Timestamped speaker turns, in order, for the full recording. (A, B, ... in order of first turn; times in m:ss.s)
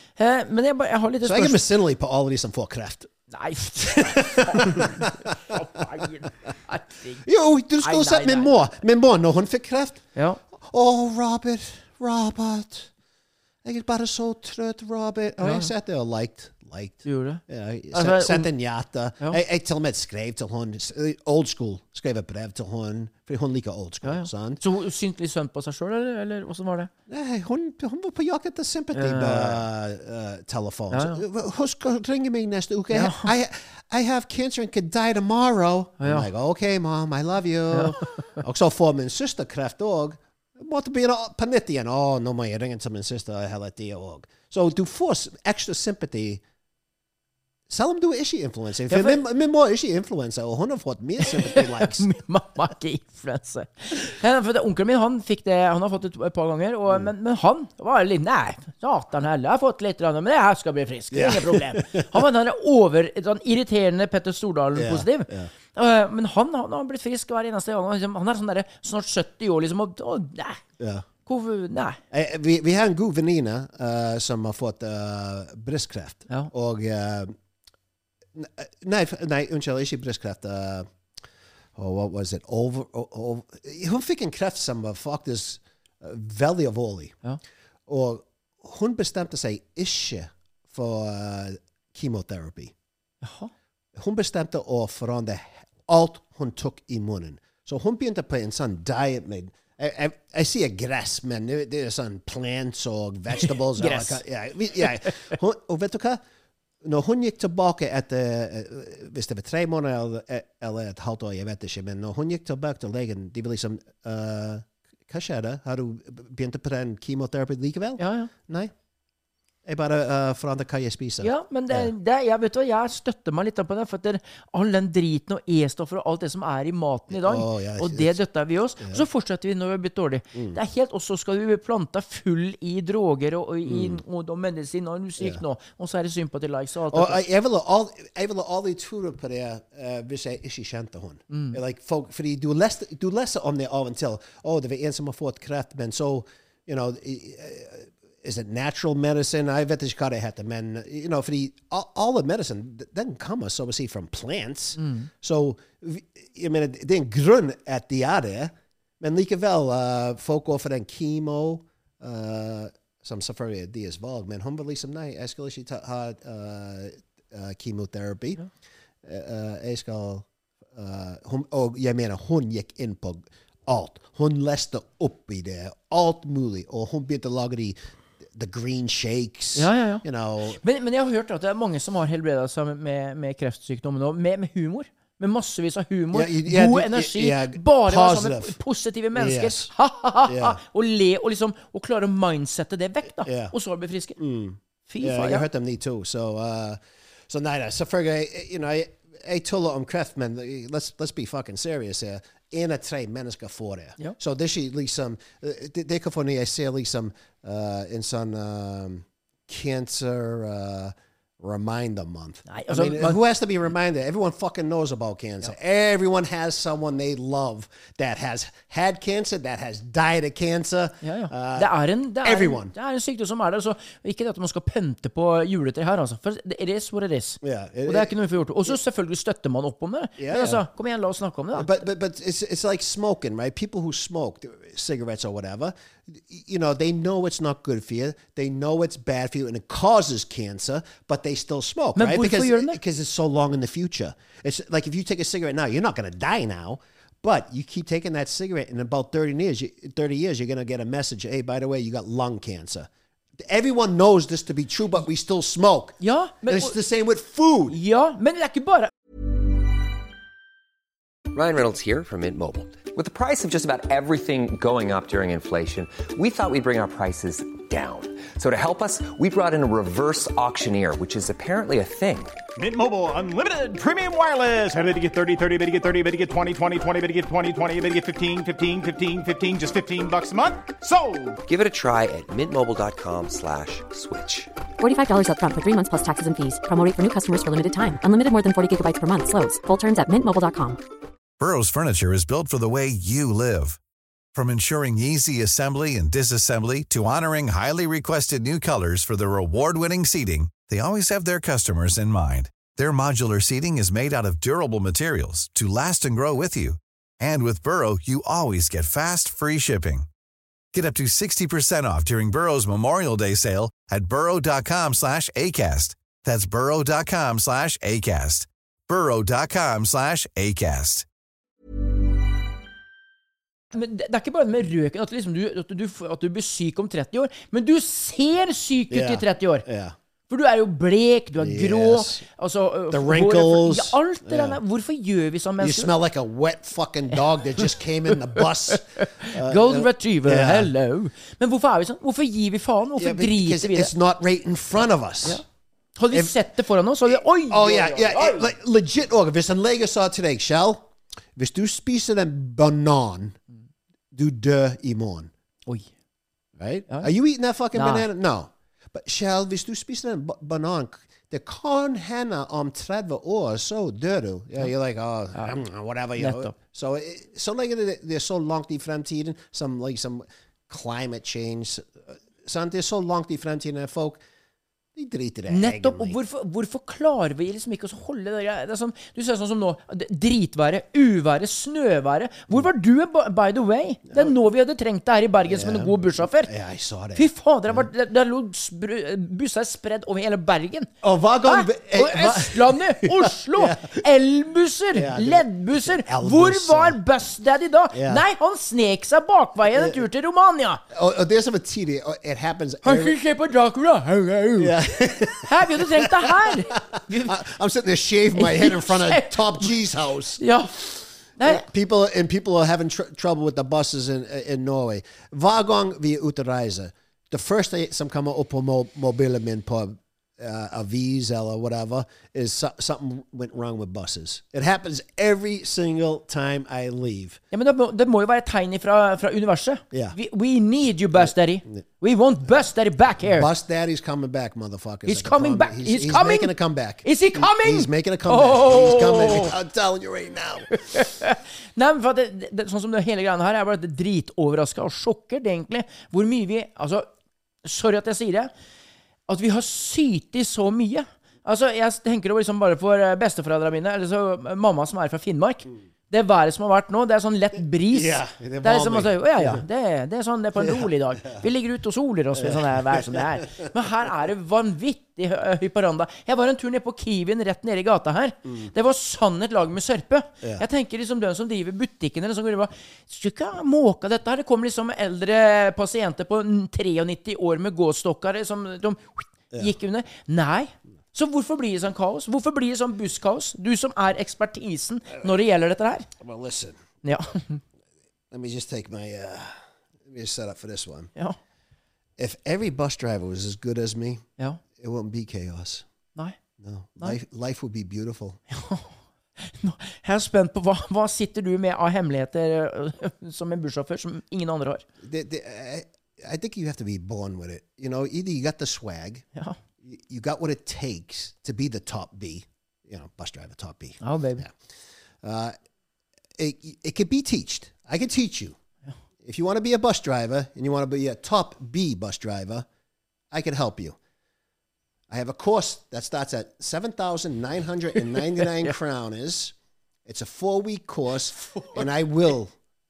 0:00.2-0:01.6 A
0:01.2-0:03.1 B
0:03.3-0:07.3 A
0:04.0-0:05.3 B
0:07.2-0:12.9 B
0:07.8-0:08.6 A
0:10.2-0:10.4 A
0:13.6-0:24.6 B
0:15.4-0:15.7 A
0:17.0-0:17.4 A
0:17.9-0:18.5 A
0:24.0-0:26.9 A
0:27.1-0:46.4 B
0:29.0-0:29.6 A
0:30.9-0:31.2 A
0:32.9-0:33.3 A
0:36.0-0:36.3 A
0:37.7-0:38.4 A
0:47.7-0:52.1 B
0:48.9-0:49.2 A
0:51.2-1:10.6 A
1:01.1-1:02.2 B
1:04.8-1:05.5 B
1:10.8-1:11.1 B
1:11.3-1:12.0 A
1:12.1-1:17.4 B
1:18.4-1:20.9 B
1:21.8-1:27.2 B
1:27.9-1:32.7 B
1:33.2-1:33.5 A
1:34.0-1:46.2 B
1:43.4-1:44.2 A
1:44.8-1:45.4 A
1:46.8-1:58.7 B
1:58.0-1:58.3 A
1:59.6-2:01.9 B
2:01.2-2:17.2 A
2:07.1-2:08.2 B
2:13.7-2:14.0 B
2:16.9-2:48.4 B
2:21.3-2:21.6 A
2:34.8-2:35.1 A
2:49.0-2:57.8 B
2:58.3-3:00.6 B
2:59.6-3:00.0 A
3:00.6-3:14.2 A
3:06.1-3:08.6 B
3:09.2-3:09.7 B
3:10.3-3:10.6 B
3:13.2-3:13.5 B
3:14.2-3:42.7 B
3:14.9-3:15.4 A
3:32.5-3:33.2 A
3:41.0-3:51.9 A
3:47.4-3:48.2 B
3:50.2-3:50.7 B
3:51.6-4:17.8 B
4:02.0-4:02.8 A
4:16.0-4:16.8 A
4:17.7-4:18.9 A
4:21.3-4:32.4 C
4:32.6-4:41.4 D
4:41.4-4:44.5 C
4:44.8-4:50.8 E
4:51.4-4:53.8 F
4:54.4-5:10.1 F
5:10.7-5:21.1 F
5:23.7-5:29.6 A
5:28.9-5:30.0 B
5:30.3-5:35.9 A
5:31.4-5:32.2 B
5:32.9-5:34.6 B
5:35.6-5:40.7 B
5:37.6-5:43.9 A
5:43.0-5:45.4 B
5:46.0-5:48.5 A
5:47.1-5:53.4 B
5:54.1-5:55.3 B
5:56.6-6:14.2 B
5:57.7-5:58.1 A
6:06.2-6:06.6 A
6:15.0-6:16.2 B
6:15.5-6:26.5 A
6:25.5-6:27.9 B
6:27.2-6:30.9 A
6:31.0-6:34.0 B
6:31.4-6:40.8 A
6:34.9-6:37.0 B
6:37.9-6:38.2 B
6:39.7-6:40.0 B
6:40.9-6:43.2 B
6:42.8-6:47.4 A
6:44.6-7:07.4 B
6:48.4-6:49.7 A
6:50.4-6:50.7 A
6:51.4-6:51.6 A
7:07.5-7:13.5 A
7:09.9-7:10.2 B
7:11.2-7:11.8 B
7:13.3-7:21.0 B
7:15.1-7:19.5 A
7:20.9-7:27.1 A
7:27.6-7:28.5 A
7:29.3-8:06.1 A
7:37.9-7:39.6 B
7:40.6-7:41.4 B
7:42.4-7:43.5 B
7:48.5-7:48.7 B
8:06.2-8:06.8 B
8:07.0-8:07.6 A
8:08.3-8:11.1 B
8:12.2-8:15.9 B
8:16.6-8:18.4 B
8:18.5-8:24.8 A
8:25.0-8:29.3 B
8:29.8-8:34.6 B
8:34.0-8:34.4 A
8:35.2-8:35.6 B
8:36.4-8:38.6 B
8:39.2-8:42.7 B
8:43.3-8:44.0 B
8:45.1-8:49.5 B
8:48.1-8:48.7 A
8:50.1-8:52.5 B
8:51.4-8:51.9 A